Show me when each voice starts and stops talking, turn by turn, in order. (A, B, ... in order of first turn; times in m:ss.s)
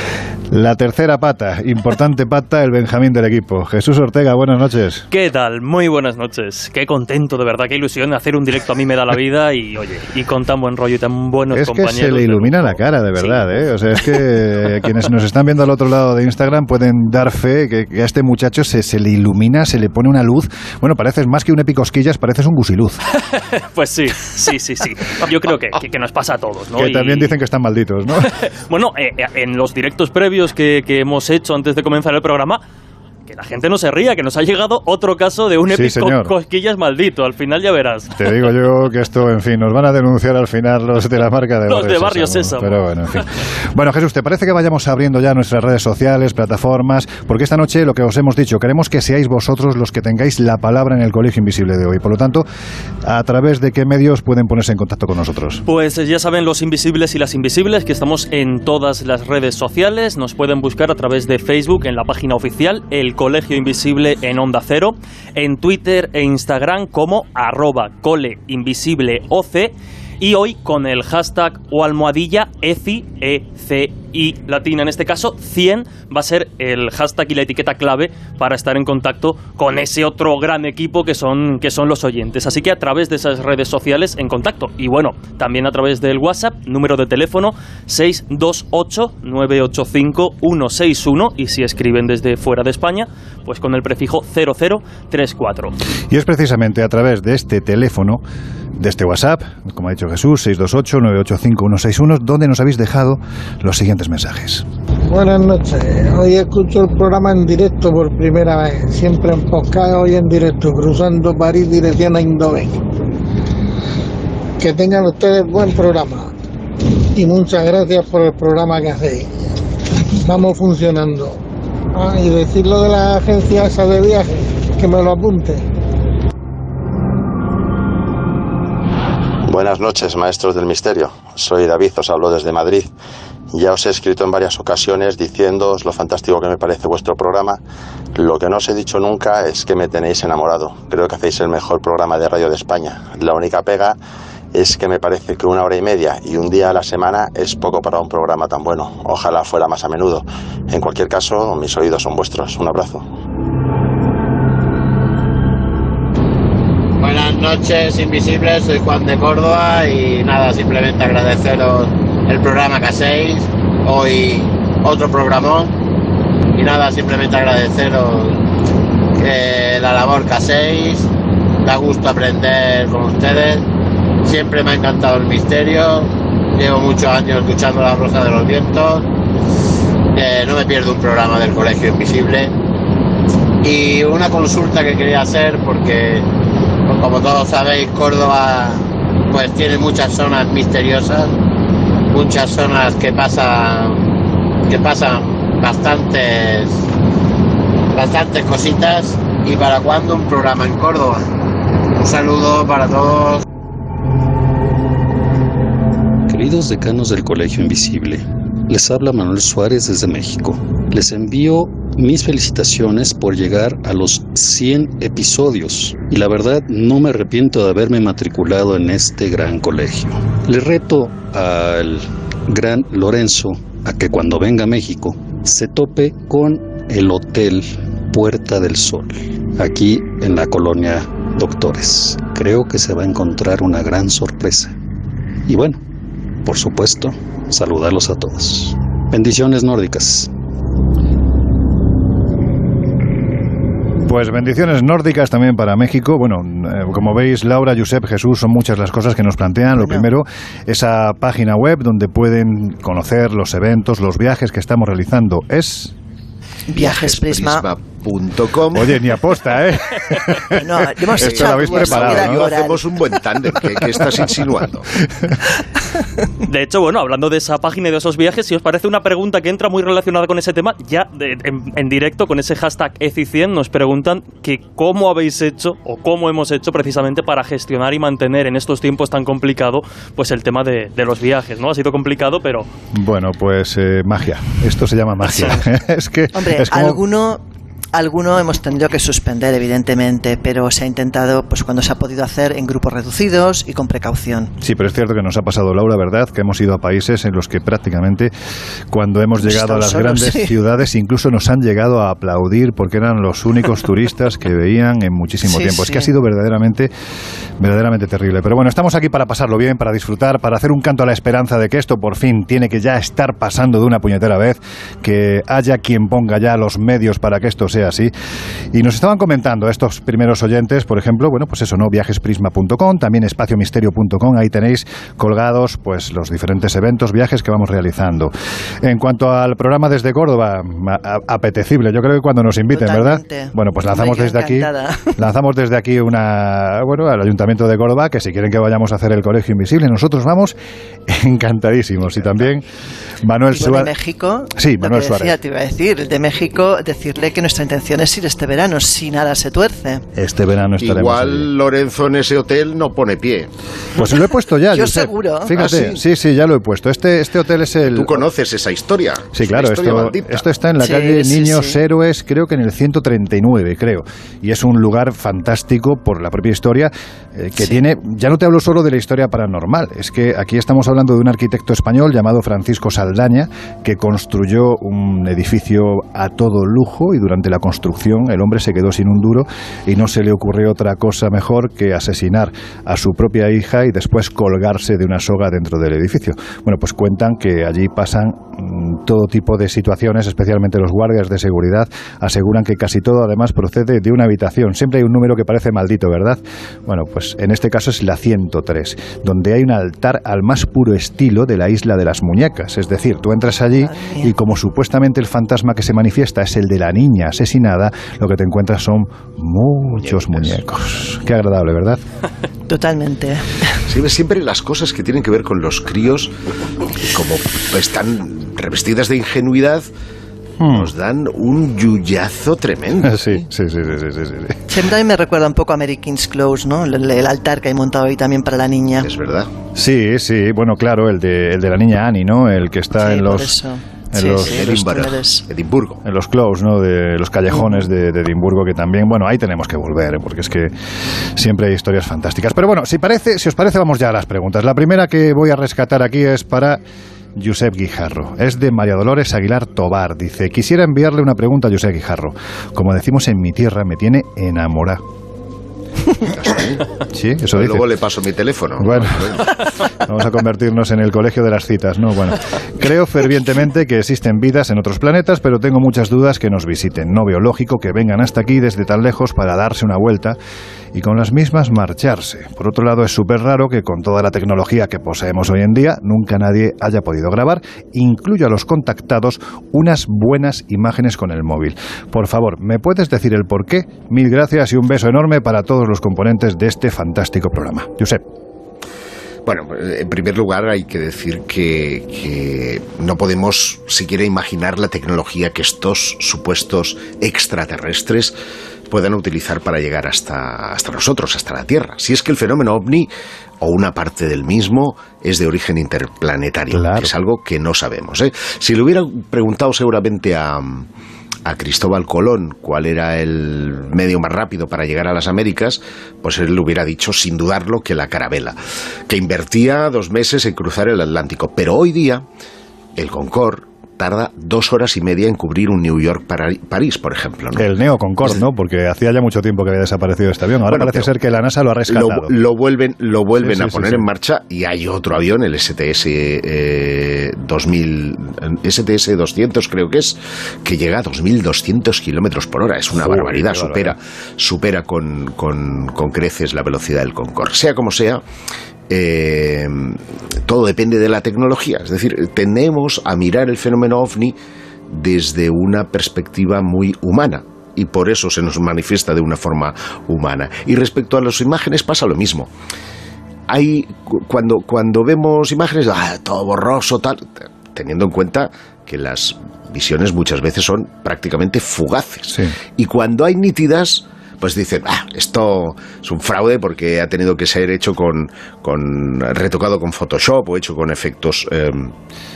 0:00.5-0:05.0 A
0:05.1-0:13.4 B
0:11.5-0:23.0 A
0:23.2-0:27.3 B
0:26.8-0:28.3 A
0:28.4-0:32.6 B
0:33.3-0:38.3 B
0:35.7-0:36.3 A
0:38.2-0:52.4 A
0:41.7-0:43.2 B
0:53.0-0:55.6 A
0:55.6-1:35.7 B
1:36.1-1:38.2 A
1:38.8-1:44.6 A
1:45.1-1:52.8 C
1:54.6-1:56.3 C
1:57.1-1:59.3 C
2:00.2-2:01.4 C
2:01.9-2:05.6 C
2:09.5-2:12.9 D
2:13.5-2:17.6 D
2:18.2-2:24.0 D
2:24.5-2:33.0 D
2:37.0-2:45.7 E
2:46.5-2:48.4 E
2:49.2-2:51.1 E
2:51.6-2:53.6 E
2:54.2-2:59.1 E
3:00.1-3:02.5 E
3:03.6-3:06.2 E
3:06.9-3:11.3 E
3:12.1-3:14.0 E
3:14.7-3:16.8 E
3:17.9-3:21.2 E
3:22.0-3:23.4 E
3:26.3-3:54.7 F
3:55.5-3:55.8 F
3:56.4-4:00.3 F
4:04.0-4:15.9 A
4:09.8-4:10.1 G
4:16.7-4:17.6 G
4:16.8-4:18.9 H
4:18.7-4:20.6 A
4:20.6-4:22.8 G
4:21.2-4:22.5 A
4:21.2-4:24.8 H
4:26.4-4:42.7 B
4:42.9-4:47.0 A
4:45.2-4:45.6 G
4:46.3-4:47.4 G
4:47.9-4:54.5 G
4:54.6-4:58.3 A
4:58.9-5:06.9 A
4:59.4-5:00.5 G
5:05.4-5:06.1 G
5:07.6-5:18.1 A
5:18.7-5:40.6 A
5:32.7-5:35.1 G
5:41.1-5:42.6 A
5:43.2-5:43.9 A
5:43.5-5:50.0 G
5:44.6-5:45.3 A
5:50.2-5:51.5 A
5:50.8-5:53.5 H
5:54.0-5:58.2 A
5:54.7-5:55.5 G
5:55.6-5:56.0 H
5:57.9-6:00.4 H
5:59.3-6:52.0 A
6:00.8-6:01.8 G
6:43.8-6:44.3 G
6:50.0-6:50.6 H
6:52.7-6:53.7 G
6:53.9-6:56.3 H
6:57.0-6:59.9 H
7:00.6-7:00.9 A
7:00.7-7:03.4 H
7:03.0-7:04.6 A
7:04.7-7:09.1 G
7:09.0-7:09.5 H
7:09.7-7:13.5 A
7:13.0-7:15.4 G
7:14.1-7:14.6 A
7:14.4-7:16.0 H
7:16.0-7:20.7 A
7:21.3-7:26.8 A
7:27.4-7:35.0 A
7:36.3-7:36.8 H
7:37.1-7:37.9 A
7:37.5-7:39.5 H
7:38.8-7:39.4 A
7:40.0-7:50.4 A
7:50.9-8:08.2 A
8:09.4-8:18.3 H
8:18.9-8:23.1 H
8:23.6-8:30.9 H
8:26.7-8:27.1 A
8:31.4-8:38.6 H
8:39.1-8:42.2 H
8:43.0-8:47.7 H
8:47.6-8:52.4 A
8:50.7-8:51.1 H
8:51.9-9:08.2 H
8:53.4-8:54.1 A
9:02.9-9:04.0 A
9:08.9-9:14.4 H
9:14.9-9:22.5 H
9:23.5-9:41.9 H
9:32.3-9:32.5 A